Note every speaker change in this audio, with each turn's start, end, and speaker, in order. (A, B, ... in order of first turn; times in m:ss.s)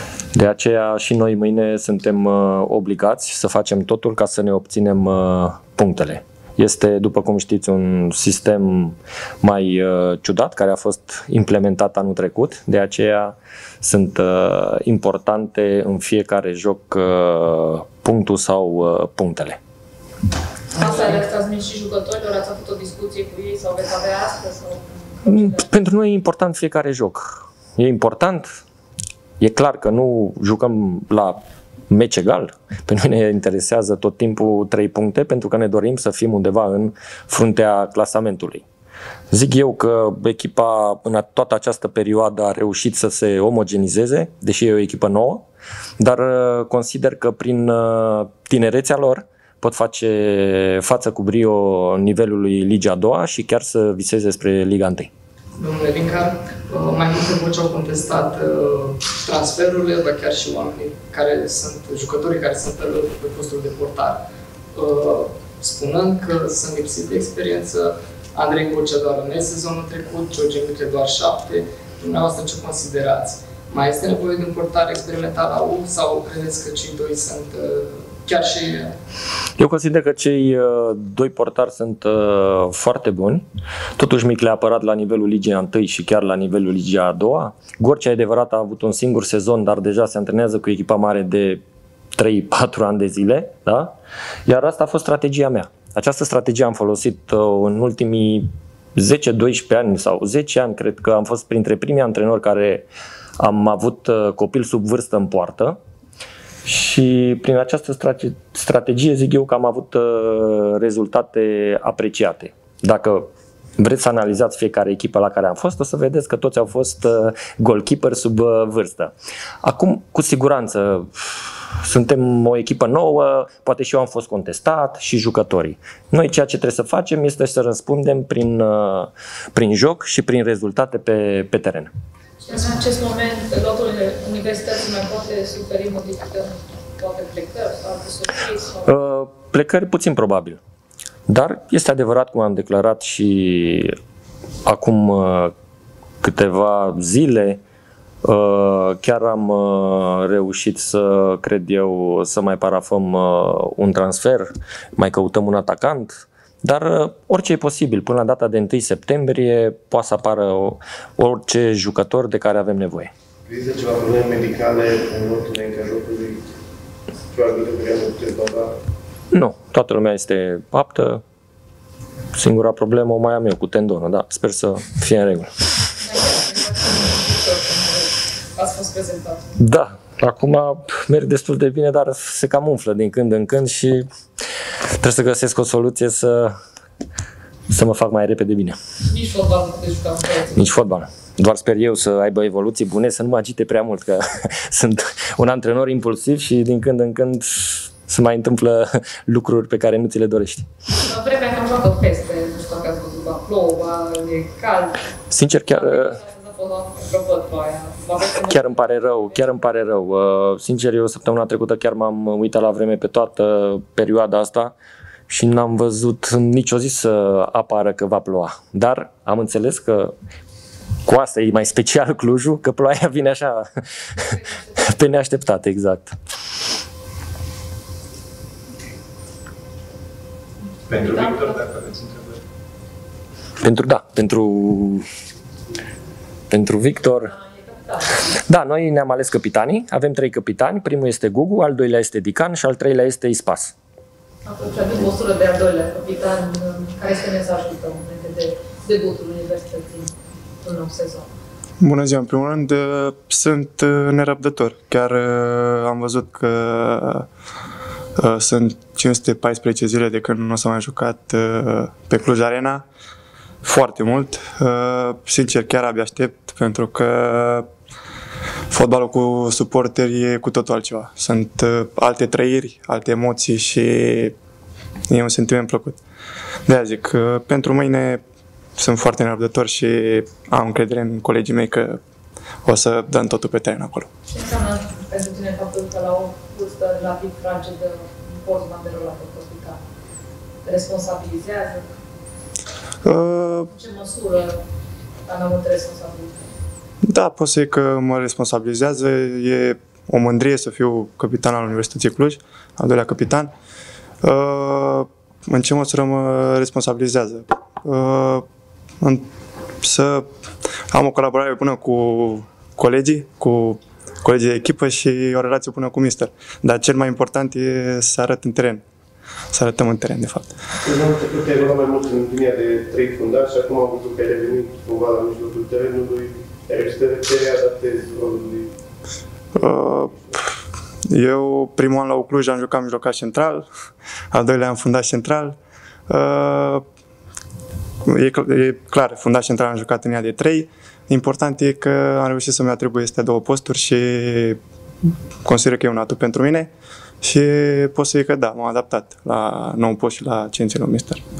0:00.3-0:19.6 A
0:20.7-0:25.7 B
0:25.3-0:28.5 A
0:29.4-0:38.6 A
0:39.3-0:45.4 A
0:46.0-0:55.1 A
0:55.6-1:04.2 C
1:04.7-1:19.0 C
1:19.6-1:23.4 A
1:24.0-1:31.6 A
1:32.1-1:33.9 A
1:34.4-1:42.9 A
1:43.4-1:45.8 A
1:46.6-1:53.3 A
1:53.8-2:11.9 A
2:12.4-2:18.9 B
2:18.8-2:20.6 A
2:21.3-2:23.9 A
2:24.6-2:25.5 A
2:26.2-2:27.6 A
2:28.2-2:43.1 A
2:43.5-2:46.4 D
2:47.3-2:48.7 D
2:49.3-2:51.2 A
2:52.3-2:55.5 A
2:56.0-2:59.4 B
2:59.6-3:04.1 A
3:04.9-3:06.5 A
3:07.7-3:08.8 A
3:09.1-3:10.7 B
3:10.6-3:20.7 A
3:20.9-3:25.1 B
3:25.3-3:26.2 A
3:25.7-3:28.8 B
3:28.4-3:34.7 A
3:35.3-3:40.1 A
3:41.0-3:43.6 A
3:44.2-3:46.1 A
3:50.9-3:51.8 B
3:53.6-3:55.0 A
3:56.5-3:57.3 A
3:57.3-3:58.2 B
3:58.2-4:03.7 A
4:04.4-4:11.3 B
4:11.8-4:17.3 E
4:18.2-4:22.8 E
4:23.6-4:27.7 E
4:28.7-4:34.3 E
4:35.1-4:36.0 E
4:36.6-4:38.2 E
4:38.8-4:42.0 E
4:42.6-4:44.1 E
4:44.3-4:49.8 B
4:50.6-4:51.8 B
4:53.0-4:53.7 E
4:53.7-4:54.6 B
4:55.2-4:56.5 B
4:57.0-5:03.5 E
5:04.2-5:08.4 E
5:09.0-5:09.3 E
5:09.8-5:10.2 E
5:10.9-5:18.8 E
5:19.5-5:20.5 E
5:20.8-5:28.7 D
5:29.6-5:30.2 E
5:31.1-5:33.7 E
5:34.3-5:35.6 E
5:36.1-5:36.8 E
5:38.0-5:44.6 E
5:45.4-5:46.7 E
5:47.2-5:51.2 E